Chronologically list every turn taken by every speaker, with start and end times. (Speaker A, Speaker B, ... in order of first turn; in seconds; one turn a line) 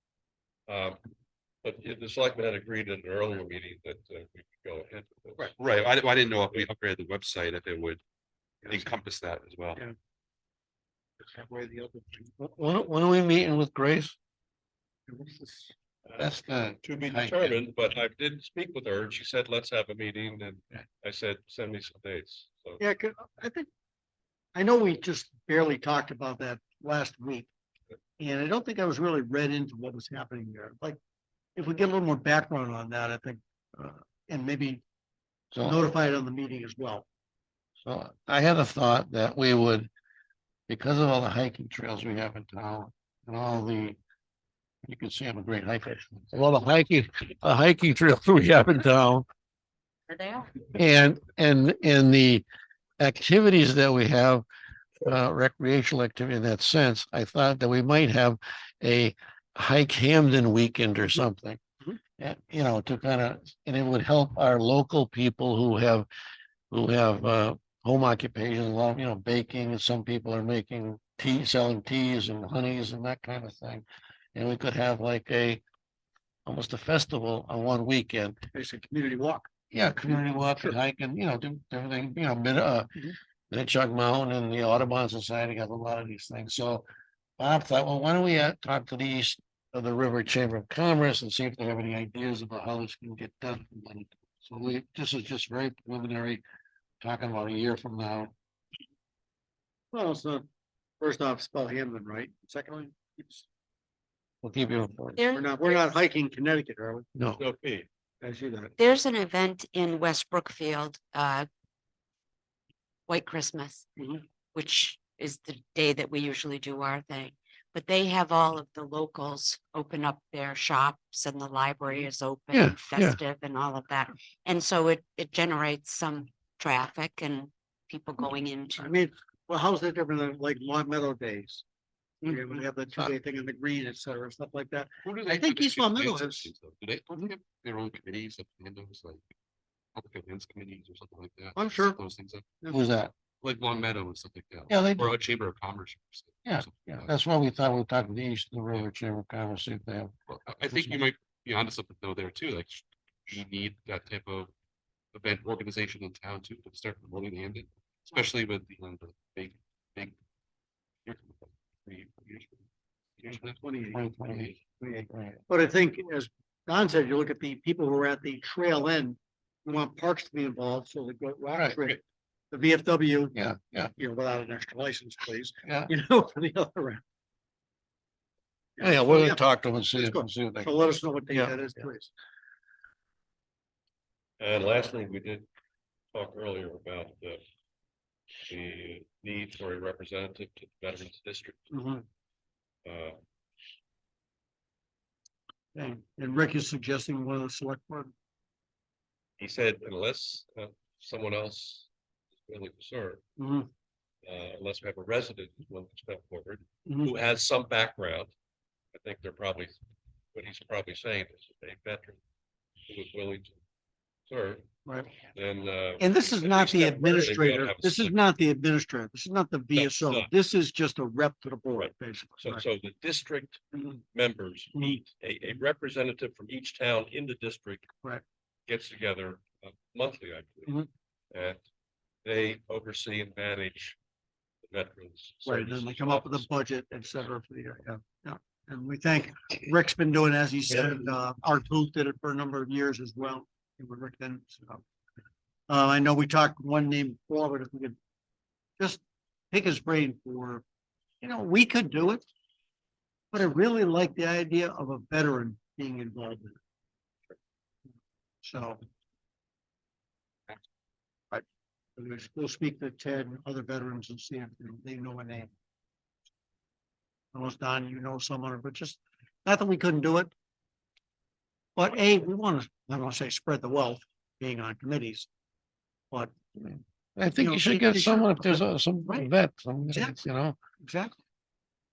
Speaker A: 0.7-1.0
Speaker A: 1.6-5.5
Speaker B: 5.5-8.0
Speaker B: 8.7-9.8
Speaker C: 11.2-12.3
Speaker D: 12.4-14.1
Speaker C: 15.1-15.7
Speaker D: 16.2-17.6
Speaker A: 16.8-22.8
Speaker C: 22.8-23.7
Speaker C: 24.5-27.5
Speaker C: 28.2-31.0
Speaker C: 31.6-34.8
Speaker D: 35.5-35.8
Speaker C: 35.6-37.0
Speaker D: 37.8-39.9
Speaker D: 40.7-44.0
Speaker D: 44.8-49.2
Speaker E: 50.1-50.5
Speaker D: 50.7-52.4
Speaker D: 53.0-54.4
Speaker D: 55.0-61.6
Speaker D: 62.2-66.1
Speaker D: 66.7-75.6
Speaker D: 76.5-78.4
Speaker C: 78.5-79.5
Speaker D: 79.7-82.9
Speaker C: 80.1-80.8
Speaker D: 83.5-86.8
Speaker D: 87.4-96.4
Speaker D: 97.0-98.3
Speaker C: 99.9-100.5
Speaker C: 101.0-103.4
Speaker D: 104.4-105.2
Speaker E: 105.1-105.7
Speaker C: 105.3-107.1
Speaker D: 107.2-107.4
Speaker A: 107.4-107.9
Speaker C: 108.2-108.7
Speaker E: 108.8-111.5
Speaker E: 113.1-113.8
Speaker C: 114.0-114.2
Speaker E: 114.5-129.0
Speaker D: 122.5-123.2
Speaker C: 128.8-131.6
Speaker E: 132.2-132.6
Speaker C: 132.2-136.5
Speaker B: 135.0-139.2
Speaker B: 139.9-142.5
Speaker C: 141.5-142.0
Speaker D: 142.7-143.1
Speaker B: 143.3-147.1
Speaker D: 144.7-145.1
Speaker D: 146.4-150.1
Speaker B: 150.3-154.5
Speaker D: 150.7-151.0
Speaker B: 155.1-160.2
Speaker B: 161.0-162.6
Speaker B: 163.2-164.6
Speaker C: 163.3-164.0
Speaker D: 163.9-165.4
Speaker C: 164.8-173.4
Speaker D: 171.5-171.8
Speaker D: 173.3-173.9
Speaker C: 173.9-177.0
Speaker D: 175.6-175.9
Speaker C: 178.8-179.4
Speaker D: 178.8-181.6
Speaker C: 179.9-182.1
Speaker A: 184.4-185.4
Speaker A: 186.1-187.4
Speaker A: 188.5-191.7
Speaker C: 191.7-192.0
Speaker A: 192.8-193.2
Speaker C: 195.7-198.1
Speaker A: 199.4-201.9
Speaker A: 202.4-203.2
Speaker C: 203.4-203.7
Speaker A: 204.2-208.3
Speaker C: 206.9-207.1
Speaker A: 208.9-209.8
Speaker A: 210.3-212.2
Speaker A: 212.9-213.6
Speaker A: 214.3-214.6
Speaker C: 214.8-215.1
Speaker A: 215.3-218.2
Speaker C: 216.0-222.7
Speaker A: 219.7-220.3
Speaker A: 221.7-227.9
Speaker C: 224.7-225.1
Speaker A: 228.7-231.6
Speaker A: 232.2-233.9
Speaker A: 234.7-236.4
Speaker C: 235.4-244.8
Speaker C: 245.7-247.9
Speaker C: 249.5-250.6
Speaker C: 251.2-252.2
Speaker C: 253.3-256.6
Speaker C: 258.4-258.8
Speaker C: 261.9-265.5
Speaker C: 267.3-270.3
Speaker C: 271.8-275.3
Speaker D: 276.6-280.6
Speaker C: 277.4-279.3
Speaker C: 279.9-280.2
Speaker C: 280.8-281.2